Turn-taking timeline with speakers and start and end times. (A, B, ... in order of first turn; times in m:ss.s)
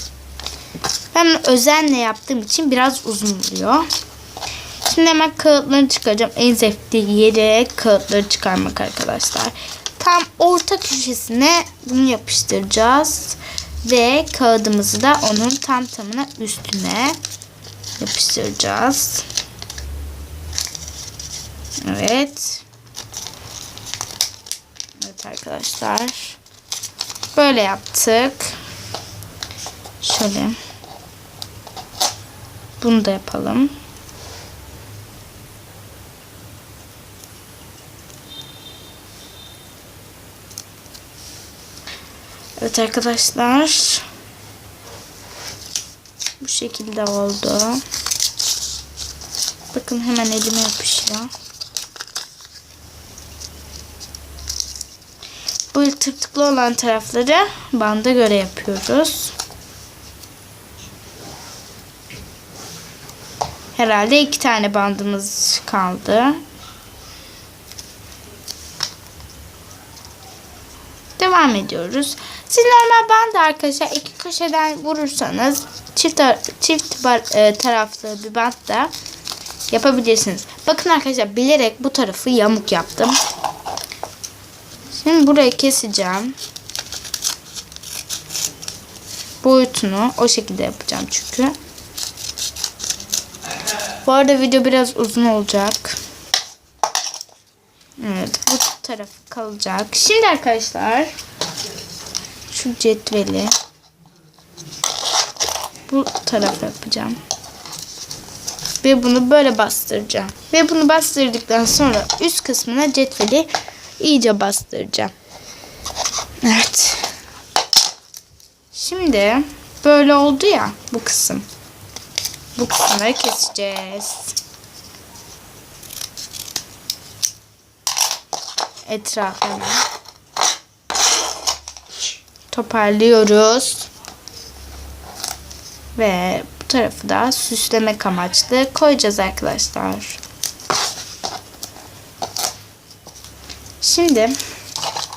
0:01.1-0:03.9 A
0:04.8-0:17.2 A
0:18.0-0:19.2 A
0:21.8-0:22.6 A
0:25.0-0:26.4 A
0:27.3-0:28.5 A
0:30.0-0:30.6 A
0:32.8-0:33.7 A
0:42.6-0:44.0 A
0:46.4-0:47.8 A
0:49.7-0:51.3 A
0:55.7-0:59.3 A
1:03.7-1:06.4 A
1:11.2-1:18.9 A
1:19.7-1:23.2 A
1:24.9-1:26.3 A
1:29.4-1:31.5 A
1:34.0-1:36.0 A
1:38.0-1:41.1 A
1:42.5-1:43.5 A
1:45.9-1:47.2 A
1:48.8-1:53.5 A
1:54.0-1:55.1 A
1:56.4-1:57.1 A
1:58.7-2:01.5 A
2:02.6-2:04.4 A
2:08.9-2:09.8 A
2:12.5-2:13.9 A
2:15.9-2:20.2 A
2:23.8-2:24.4 A